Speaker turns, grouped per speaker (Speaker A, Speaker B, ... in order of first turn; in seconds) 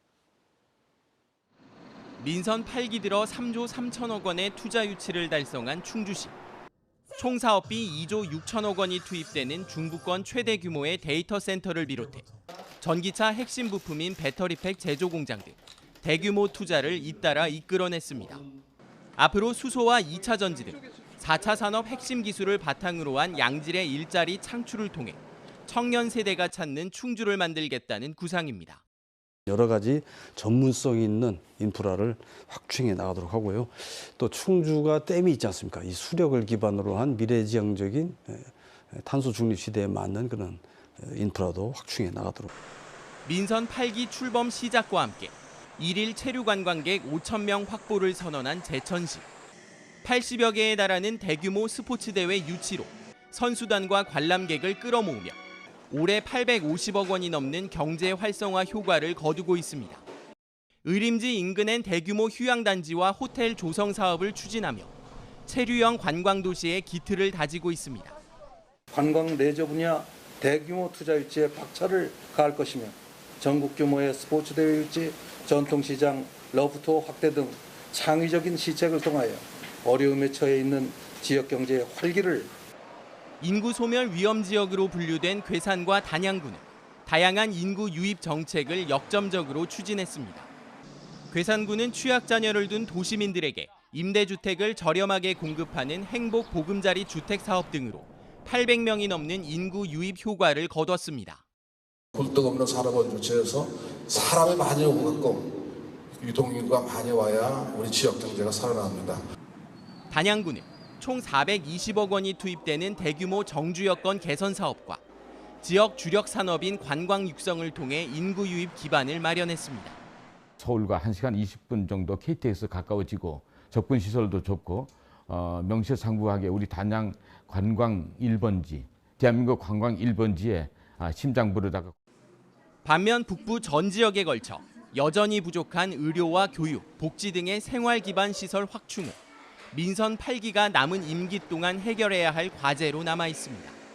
Speaker A: 2.2-6.3, 7.2-12.3, 12.8-18.4, 19.2-28.8, 43.2-49.3, 50.0-55.4, 55.9-60.0, 60.9-64.9, 65.5-68.2, 83.4-90.5, 91.3-101.4, 110.1-115.0, 115.6-120.0, 132.8-139.2, 139.7-143.8
Speaker B: 29.5-42.5
Speaker C: 68.9-82.5
Speaker D: 102.2-105.6, 106.2-109.2
Speaker E: 120.6-132.0